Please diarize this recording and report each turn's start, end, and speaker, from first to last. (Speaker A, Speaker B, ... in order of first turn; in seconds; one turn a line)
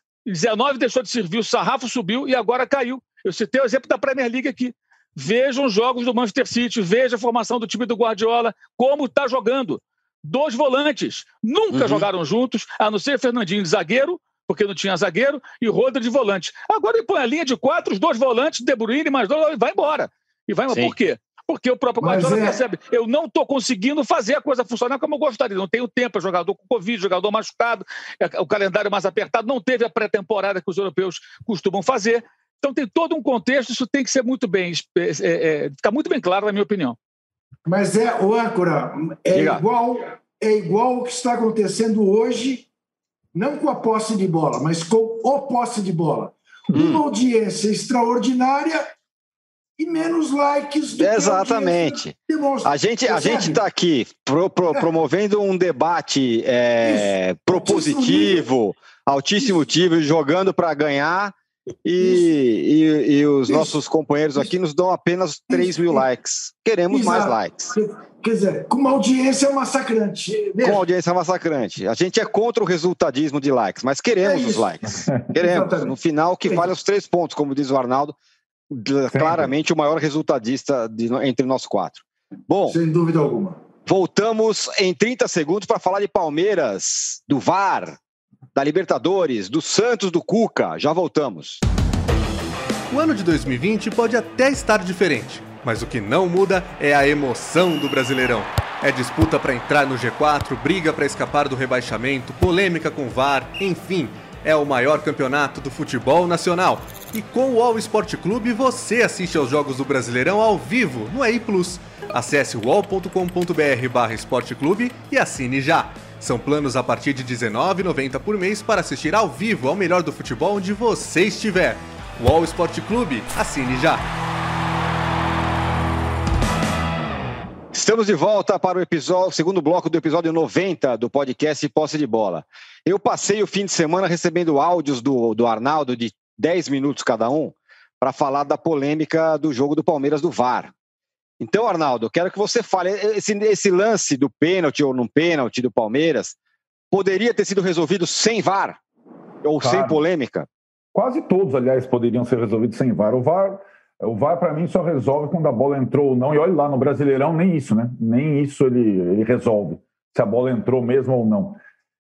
Speaker A: 0.2-37.0
Speaker B: 11.7-12.0
Speaker C: 22.0-22.6
Speaker C: 37.6-42.7
Speaker B: 39.3-39.6
Speaker C: 43.3-48.9
Speaker B: 46.7-47.0
Speaker C: 49.8-53.6
Speaker B: 51.0-61.3
Speaker C: 56.8-58.5
Speaker B: 61.8-67.8
Speaker C: 62.0-62.3
Speaker C: 63.5-63.8
Speaker C: 65.5-66.0
Speaker C: 66.9-70.8
Speaker B: 70.6-78.2
Speaker C: 74.2-74.9
Speaker C: 75.4-75.9
Speaker B: 78.7-82.8
Speaker D: 79.1-79.5
Speaker C: 82.7-83.6
Speaker B: 83.8-88.0
Speaker B: 88.5-91.6
Speaker E: 92.9-124.0
Speaker B: 127.7-140.7
Speaker B: 141.4-146.3
Speaker B: 146.9-148.8
Speaker B: 149.4-150.5
Speaker D: 149.6-150.0
Speaker D: 150.9-161.6